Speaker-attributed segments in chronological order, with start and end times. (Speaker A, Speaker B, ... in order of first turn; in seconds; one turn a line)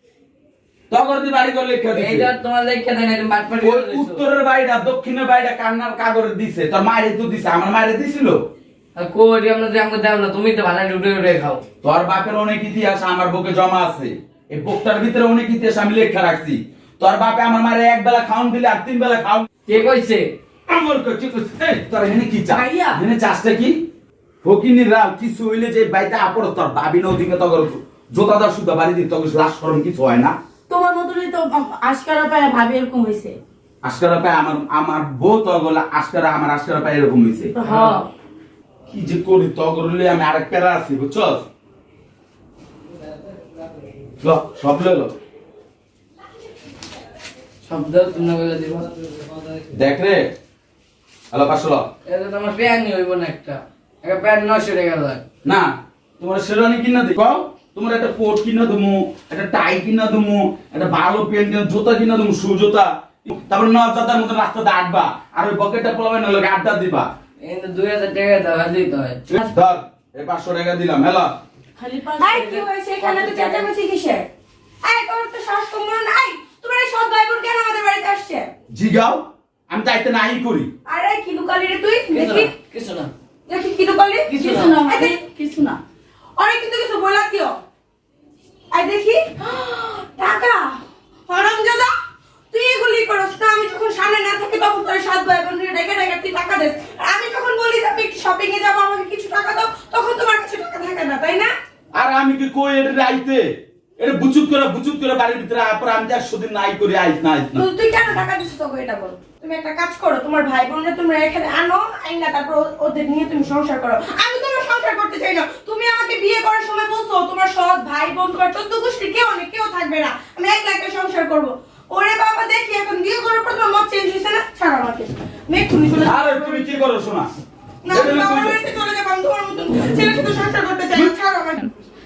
Speaker A: 0.9-2.3
Speaker B: 1.9-4.2
Speaker A: 3.6-8.4
Speaker B: 9.0-11.6
Speaker A: 11.8-19.5
Speaker B: 19.7-20.3
Speaker A: 20.7-23.8
Speaker C: 22.5-23.0
Speaker A: 24.4-30.3
Speaker C: 30.7-33.4
Speaker A: 33.8-37.5
Speaker C: 37.5-38.1
Speaker B: 37.6-38.0
Speaker A: 38.9-41.5
Speaker A: 44.2-45.1
Speaker B: 47.6-48.9
Speaker A: 49.7-50.3
Speaker A: 51.3-51.8
Speaker B: 52.1-55.2
Speaker A: 56.2-67.1
Speaker B: 67.4-69.3
Speaker A: 69.3-71.3
Speaker C: 71.8-72.5
Speaker D: 72.2-74.3
Speaker B: 72.4-73.7
Speaker D: 74.8-78.5
Speaker A: 78.7-80.7
Speaker D: 80.9-82.5
Speaker B: 82.1-83.1
Speaker D: 83.5-85.2
Speaker B: 84.3-84.8
Speaker C: 84.3-85.8
Speaker D: 86.4-87.6
Speaker D: 88.7-91.9
Speaker D: 92.5-101.5
Speaker A: 102.0-103.5
Speaker A: 104.0-107.7
Speaker D: 107.6-126.7
Speaker A: 126.0-127.3
Speaker D: 127.8-131.7
Speaker A: 127.9-128.6